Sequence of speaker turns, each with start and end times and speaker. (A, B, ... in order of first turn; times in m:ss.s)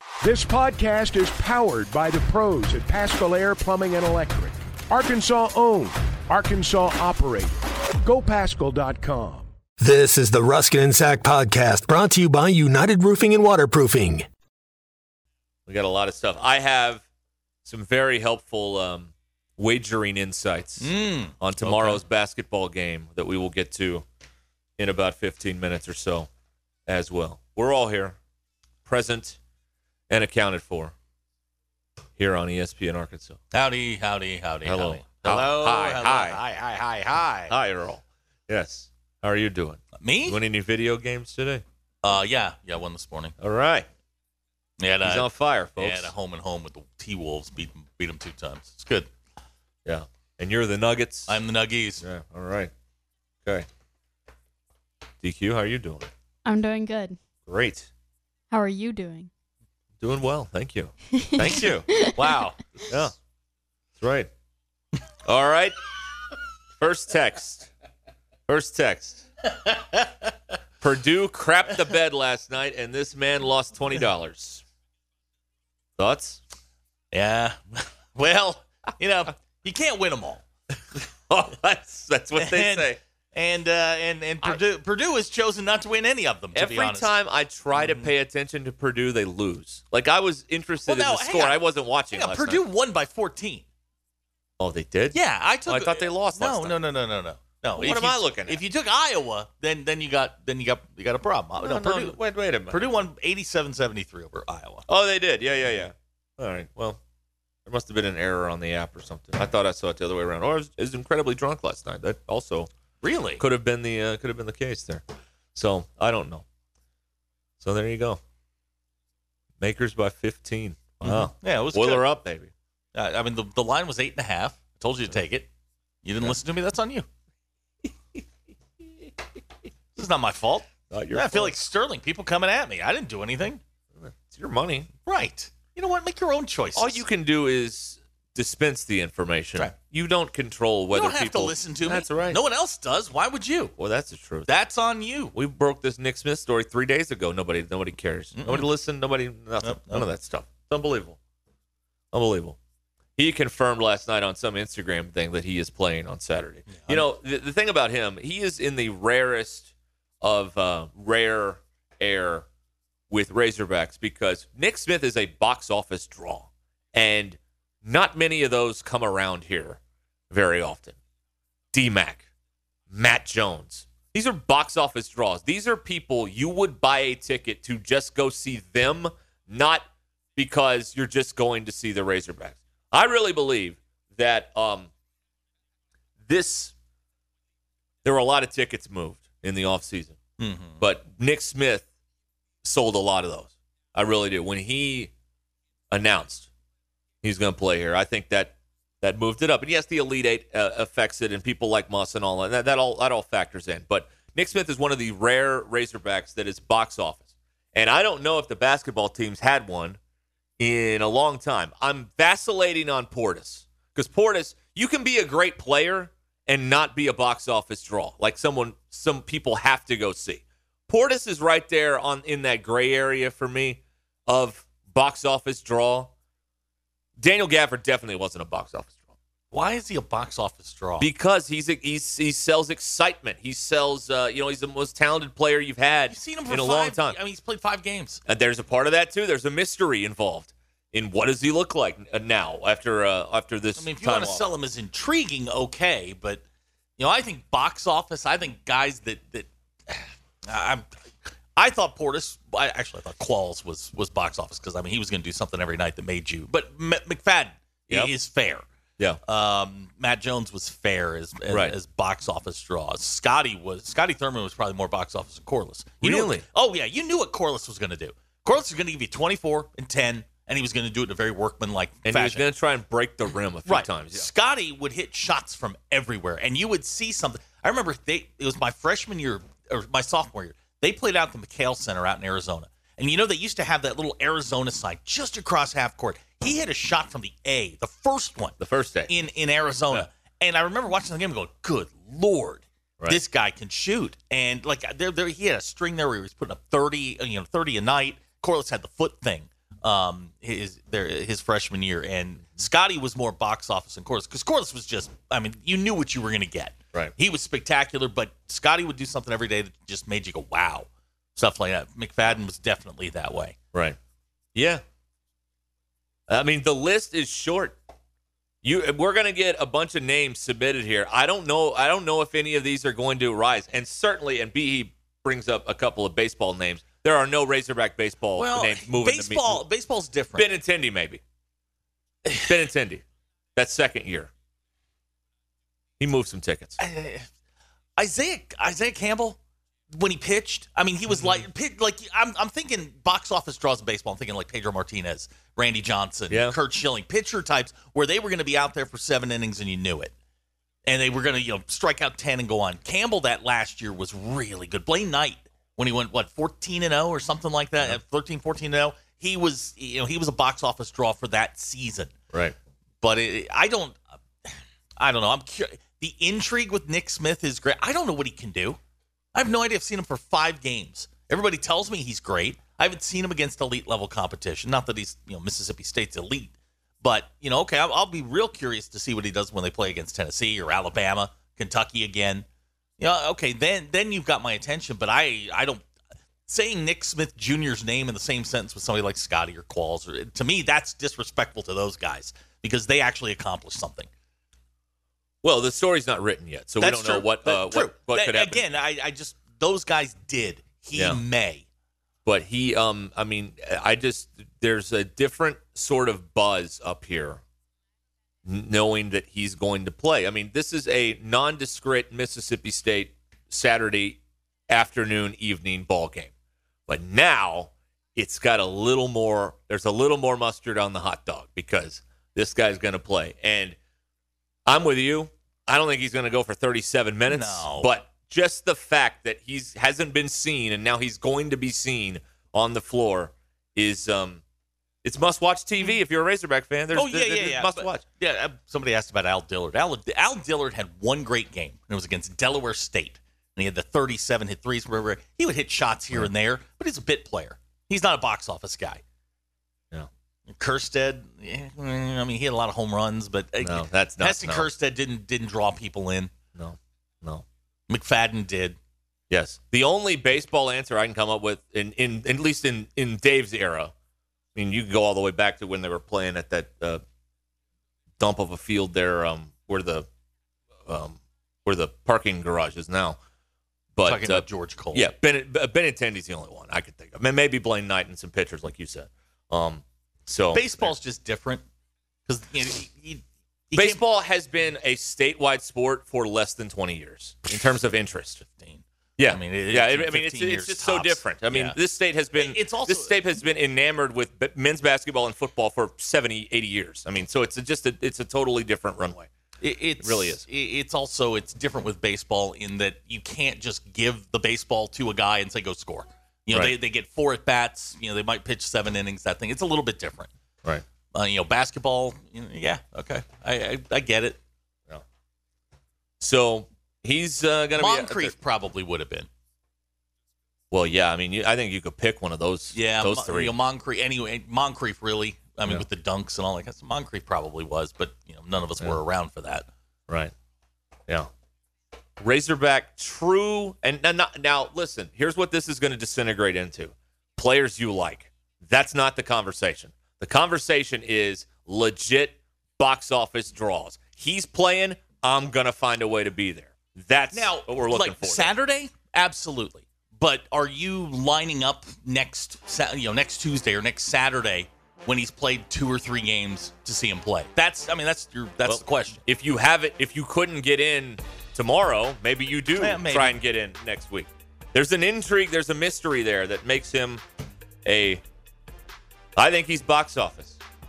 0:00.2-0:09.5 A
0:09.8-0:14.2 B
0:15.7-0:17.0 C
0:17.6-0:24.0 C
0:20.8-0:22.0 D
0:24.8-0:26.3 C
0:26.9-0:28.2 C
0:28.9-0:29.4 C
0:30.1-0:30.9 C
0:32.2-0:33.4 C
0:33.5-0:37.5 D
0:34.7-0:36.4 C
0:37.5-0:41.6 C
0:40.0-0:40.4 D
0:42.0-0:43.4 D
0:43.4-0:43.9 C
0:44.8-0:49.1 D
0:45.0-0:46.1 C
0:49.9-0:51.4 C
0:51.3-0:52.0 D
0:52.0-0:52.7 C
0:55.2-0:56.1 C
0:56.4-0:57.2 E
0:57.5-0:57.9 C
0:58.5-0:59.3 E
1:00.0-1:01.9 C
1:01.2-1:02.1 E
1:02.1-1:02.9 D
1:02.9-1:03.1 C
1:04.0-1:04.3 C
1:05.2-1:05.8 C
1:06.8-1:07.7 C
1:08.5-1:09.2 C
1:10.8-1:14.6 C
1:16.0-1:16.4 C
1:17.1-1:20.4 D
1:21.3-1:23.0 C
1:22.4-1:27.1 D
1:26.6-1:32.6 C
1:27.8-1:28.1 D
1:30.9-1:31.6 D
1:32.1-1:33.7 D
1:34.6-1:36.8 C
1:35.1-1:44.9 D
1:37.8-1:38.6 C
1:41.6-1:42.8 C
1:44.9-1:47.0 C
1:47.7-1:52.7 C
1:53.0-1:53.4 D
1:53.4-1:55.0 C
1:55.6-1:56.4 C
1:57.6-1:58.2 C
1:59.6-2:02.5 C
2:01.0-2:02.0 D
2:03.0-2:05.5 D
2:06.0-2:07.1 D
2:10.0-2:13.6 D
2:10.9-2:11.6 C
2:14.0-2:14.9 C
2:15.0-2:17.0 D
2:16.8-2:22.4 C
2:20.9-2:23.7 D
2:23.8-2:24.5 C
2:24.5-2:25.3 D
2:25.3-2:31.2 C
2:28.4-2:28.7 D
2:29.6-2:30.1 D
2:32.1-2:32.6 C
2:33.2-2:39.7 C
2:36.7-2:37.0 D
2:40.2-2:42.5 C
2:43.1-2:49.8 C
2:50.3-2:51.0 C
2:51.7-2:52.2 C
2:52.9-2:59.8 C
3:00.4-3:04.9 C
3:06.3-3:06.7 C
3:08.0-3:10.2 C
3:10.4-3:10.8 D
3:10.8-3:11.8 C
3:12.6-3:15.1 C
3:15.9-3:16.5 C
3:17.2-3:30.0 C
3:30.6-3:46.1 C
3:47.2-3:49.0 C
3:49.5-3:51.1 D
3:51.0-3:57.2 C
3:56.1-3:58.2 D
3:58.3-4:04.4 C
4:03.8-4:06.4 D
4:07.0-4:10.9 D
4:11.6-4:18.6 D
4:19.2-4:32.4 D
4:21.5-4:21.8 C
4:26.0-4:26.4 C
4:32.1-4:34.3 C
4:33.7-4:48.6 D
4:48.6-4:49.1 C
4:49.1-5:13.6 D
5:14.6-5:14.8 C
5:16.3-5:17.8 C
5:18.6-5:29.7 C
5:28.4-5:30.5 D
5:30.4-5:31.2 C
5:32.4-5:33.0 C
5:33.6-5:34.3 C
5:36.0-5:36.8 C
5:36.8-5:37.3 D
5:38.0-5:39.4 D
5:39.9-5:50.1 D
5:50.9-6:02.1 D
6:03.0-6:04.0 D
6:05.0-6:08.8 D
6:09.4-6:22.5 D
6:23.0-6:25.8 D
6:26.5-6:34.1 D
6:35.4-6:38.6 C
6:36.8-6:41.7 D
6:41.0-6:41.2 C
6:42.3-6:47.4 C
6:48.4-6:54.2 C
6:54.7-6:56.3 C
6:56.9-7:03.8 C
7:04.7-7:14.4 C
7:07.3-7:07.9 D
7:15.0-7:18.0 C
7:16.9-7:29.0 D
7:30.5-7:36.3 D
7:33.6-7:34.7 C
7:36.6-7:37.4 C
7:37.9-7:38.8 D
7:39.3-7:43.9 C
7:44.6-7:47.0 C
7:48.2-7:50.1 C
7:50.9-7:53.2 C
7:54.0-8:01.0 C
7:54.0-7:55.1 D
8:00.5-8:01.6 D
8:02.3-8:04.0 D
8:03.7-8:08.4 C
8:08.4-8:11.8 D
8:09.2-8:19.3 C
8:12.3-8:13.1 D
8:19.6-8:30.3 D
8:20.0-8:20.4 C
8:31.1-8:34.4 D
8:36.2-8:38.3 C
8:37.8-8:39.3 D
8:40.7-8:43.5 C
8:42.7-8:49.7 D
8:52.2-9:08.5 C
9:07.3-9:19.2 D
9:18.7-9:27.2 C
9:22.8-9:23.4 D
9:27.8-9:28.2 C
9:29.4-9:30.6 C